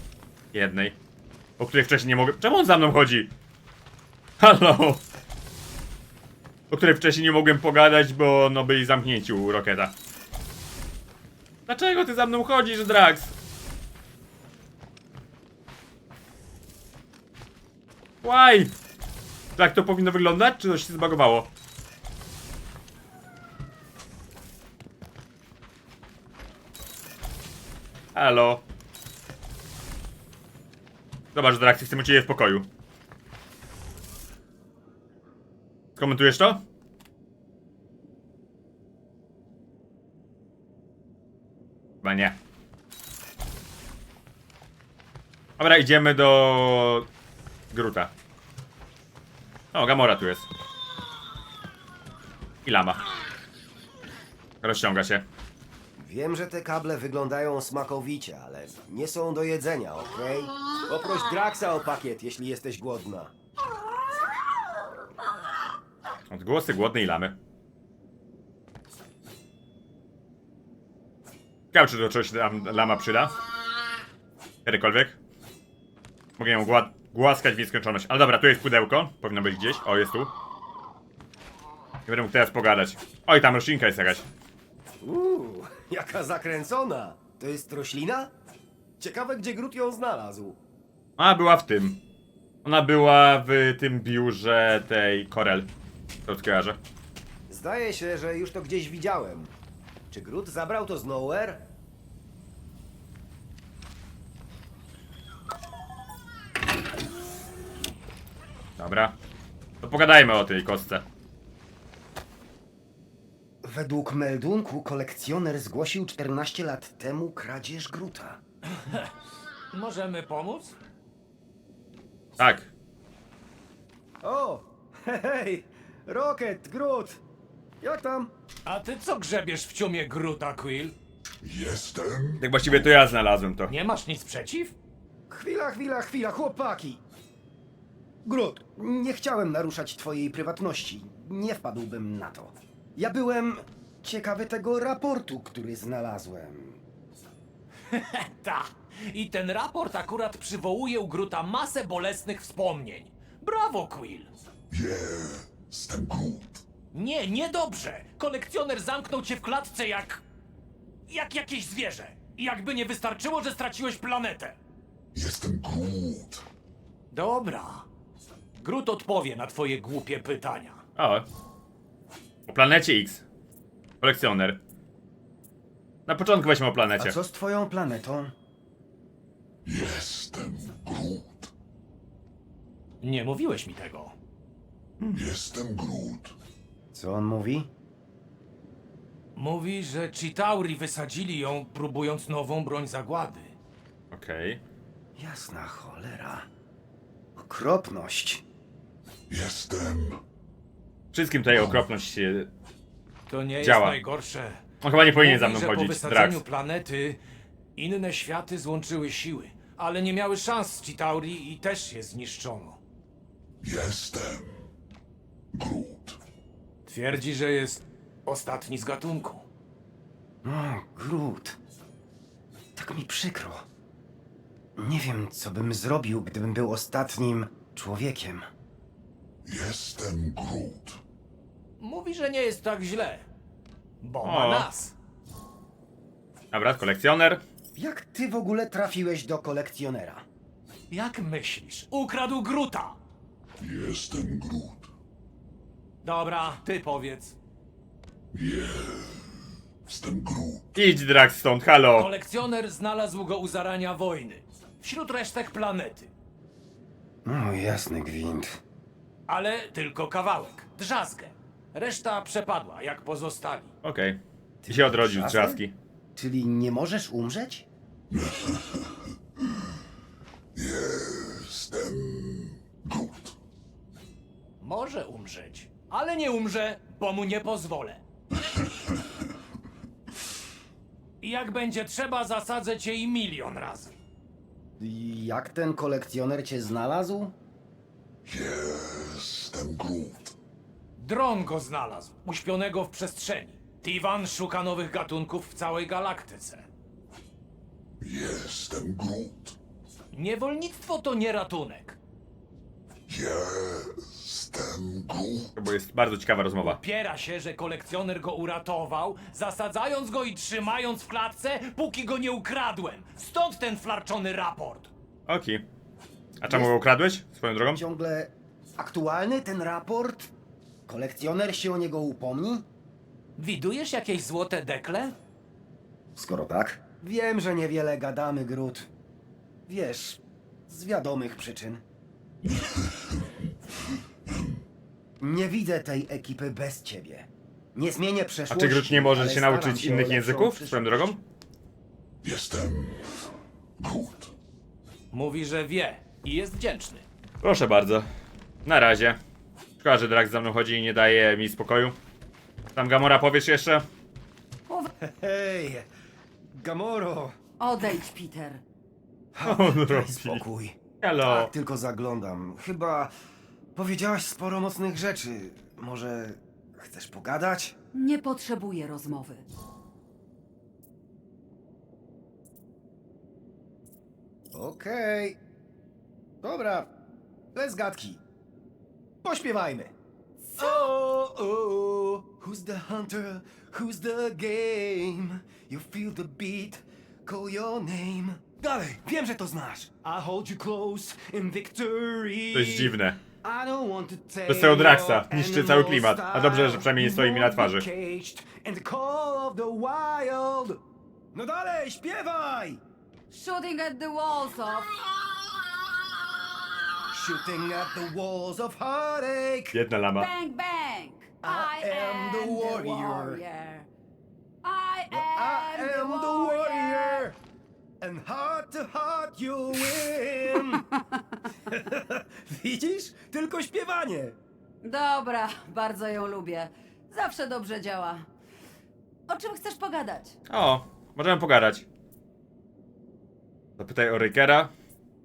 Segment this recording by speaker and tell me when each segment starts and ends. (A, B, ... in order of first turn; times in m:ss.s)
0:00.5-0:01.0 A
0:01.6-0:03.3 A
0:04.4-0:05.0 A
0:06.7-0:09.9 A
0:11.7-0:13.3 A
0:18.2-0:18.7 A
0:19.6-0:21.5 A
0:28.1-0:28.6 A
0:31.3-0:32.7 A
0:36.0-0:36.6 A
0:42.0-0:42.4 A
0:45.6-0:47.0 A
0:47.7-0:48.1 A
0:49.7-0:50.5 A
0:52.6-0:53.0 A
0:54.6-0:55.2 A
0:56.0-1:03.3 B
1:06.3-1:07.4 A
1:11.7-1:13.4 A
1:14.6-1:15.2 A
1:16.4-1:20.3 A
1:22.0-1:24.2 A
1:25.0-1:28.3 B
1:29.0-1:30.6 B
1:31.2-1:32.0 A
1:32.6-1:35.7 A
1:36.3-1:36.8 A
1:37.5-1:39.5 B
1:40.1-1:41.6 B
1:48.8-1:49.1 A
1:49.8-1:51.0 A
1:53.6-1:58.4 B
1:58.8-1:59.1 C
1:59.7-2:00.8 C
2:02.4-2:02.7 A
2:04.2-2:07.2 B
2:07.8-2:08.3 B
2:08.6-2:10.9 C
2:11.4-2:13.0 D
2:12.4-2:13.7 A
2:13.7-2:14.7 C
2:15.3-2:17.0 B
2:18.2-2:26.8 B
2:27.9-2:34.3 C
2:34.7-2:36.6 D
2:36.9-2:40.2 C
2:41.1-2:44.6 C
2:45.1-2:46.4 D
2:47.1-2:47.9 C
2:48.6-2:50.8 C
2:51.0-2:51.2 A
2:52.5-2:53.2 A
2:54.0-2:54.6 A
2:56.1-2:57.2 A
2:57.0-2:58.3 B
2:59.6-3:01.5 D
3:03.0-3:04.2 C
3:05.1-3:06.3 D
3:06.9-3:07.7 B
3:09.4-3:13.5 C
3:14.1-3:14.6 A
3:15.2-3:16.5 B
3:17.4-3:18.4 B
3:19.3-3:20.2 D
3:21.1-3:22.5 A
3:23.3-3:27.2 C
3:23.6-3:24.0 A
3:24.8-3:26.4 A
3:27.8-3:32.8 C
3:33.6-3:34.6 D
3:35.5-3:36.2 D
3:36.8-3:39.4 C
3:40.4-3:41.6 B
3:42.7-3:43.6 B
3:44.8-3:48.5 B
3:49.4-3:51.0 D
3:51.8-3:53.2 C
3:54.0-3:54.9 C
3:54.2-3:54.7 A
3:56.5-3:57.4 A
3:57.8-4:00.2 B
4:00.9-4:03.0 C
4:03.6-4:04.9 D
4:06.0-4:07.3 C
4:08.3-4:09.2 D
4:09.8-4:10.7 D
4:10.7-4:12.1 A
4:12.0-4:16.1 C
4:17.2-4:18.6 B
4:19.3-4:23.7 C
4:23.8-4:25.7 A
4:24.6-4:25.6 B
4:26.1-4:27.6 B
4:28.1-4:29.0 D
4:30.5-4:33.4 D
4:34.6-4:38.0 C
4:41.2-4:43.9 C
4:44.8-4:47.3 B
4:48.2-4:50.3 D
4:51.0-4:56.6 C
4:58.0-4:59.6 D
5:00.1-5:02.0 C
5:03.1-5:05.5 D
5:05.6-5:06.8 A
5:06.6-5:14.9 C
5:15.3-5:15.6 A
5:16.4-5:17.8 A
5:17.7-5:20.3 B
5:20.9-5:22.6 B
5:23.4-5:25.1 C
5:26.1-5:28.9 B
5:29.7-5:31.8 B
5:32.4-5:33.3 D
5:35.2-5:41.2 B
5:38.5-5:41.2 A
5:42.2-5:43.3 D
5:43.8-5:44.3 D
5:45.1-5:47.0 C
5:47.4-5:48.1 A
5:48.6-5:49.2 A
5:49.8-5:51.9 A
5:52.7-5:53.8 A
5:55.0-5:55.9 B
5:56.4-5:57.4 B
5:57.6-5:58.6 E
5:59.3-6:03.1 B
5:59.4-6:00.4 A
6:01.0-6:01.5 A
6:03.7-6:07.7 B
6:07.9-6:09.4 E
6:14.5-6:15.4 B
6:16.4-6:16.9 B
6:17.5-6:18.2 B
6:19.2-6:19.9 B
6:20.4-6:20.9 E
6:20.6-6:40.8 B
6:32.5-6:33.2 A
6:34.5-6:37.9 A
6:41.3-6:42.8 B
6:43.3-6:45.0 E
6:47.1-6:49.8 B
6:49.7-6:50.3 A
6:50.2-6:53.9 E
6:51.4-6:53.4 B
6:54.6-6:57.3 E
6:55.1-6:57.4 B
6:58.0-7:00.8 B
7:00.7-7:01.4 E
7:01.6-7:04.4 B
7:04.8-7:08.2 E
7:09.3-7:10.4 E
7:10.5-7:11.8 A
7:13.8-7:14.7 A